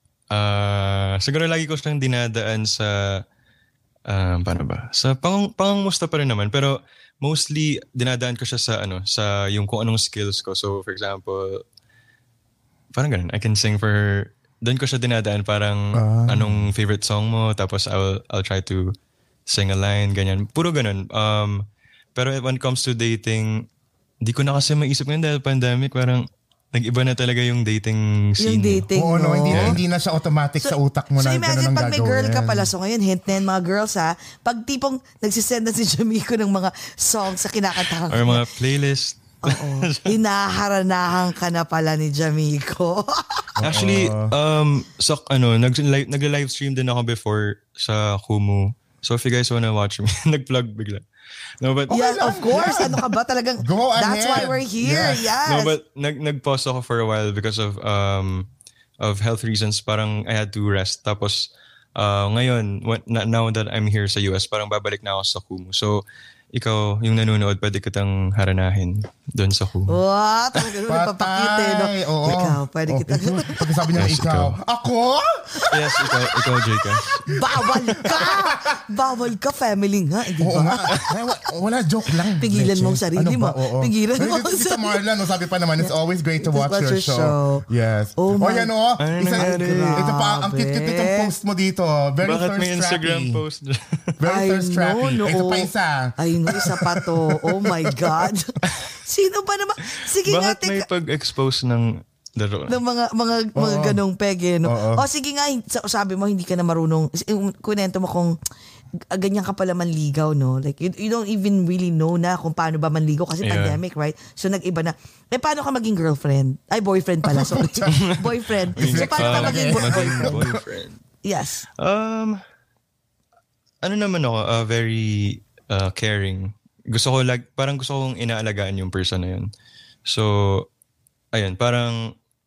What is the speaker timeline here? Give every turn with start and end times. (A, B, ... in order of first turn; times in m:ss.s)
0:00.3-0:03.2 A
0:04.1-0:11.6 A
0:12.9-0:18.9 A
0:15.9-0:16.7 B
0:19.5-0:21.6 A
0:22.2-0:23.7 A
0:24.2-0:28.9 A
0:28.4-0:29.8 C
0:28.9-0:32.7 B
0:29.5-0:29.8 A
0:30.6-0:38.5 C
0:38.1-0:40.2 A
0:39.4-0:43.6 C
0:43.6-0:44.3 B
0:43.6-0:51.0 A
0:51.6-0:53.0 A
0:51.9-0:53.0 B
0:51.9-0:55.7 C
0:53.6-0:55.3 B
0:54.9-0:58.5 A
0:59.0-1:10.0 A
1:09.9-1:13.7 C
1:10.9-1:15.7 B
1:13.9-1:14.6 A
1:15.6-1:16.1 C
1:15.7-1:17.2 A
1:17.0-1:21.0 C
1:17.3-1:18.8 B
1:20.4-1:33.4 B
1:22.4-1:25.0 C
1:25.8-1:27.6 C
1:28.2-1:28.7 C
1:29.0-1:30.1 A
1:29.4-1:31.3 C
1:32.2-1:34.1 A
1:34.2-1:37.1 B
1:34.2-1:40.9 C
1:40.2-1:42.8 A
1:42.7-1:48.3 C
1:43.6-1:44.0 B
1:44.6-1:45.0 B
1:49.1-2:00.4 C
1:53.4-1:53.8 A
1:57.2-1:58.1 B
1:57.9-2:01.0 A
1:58.8-2:00.6 B
2:01.2-2:01.6 C
2:01.8-2:02.4 A
2:03.8-2:09.5 A
2:10.0-2:10.7 A
2:11.3-2:12.1 A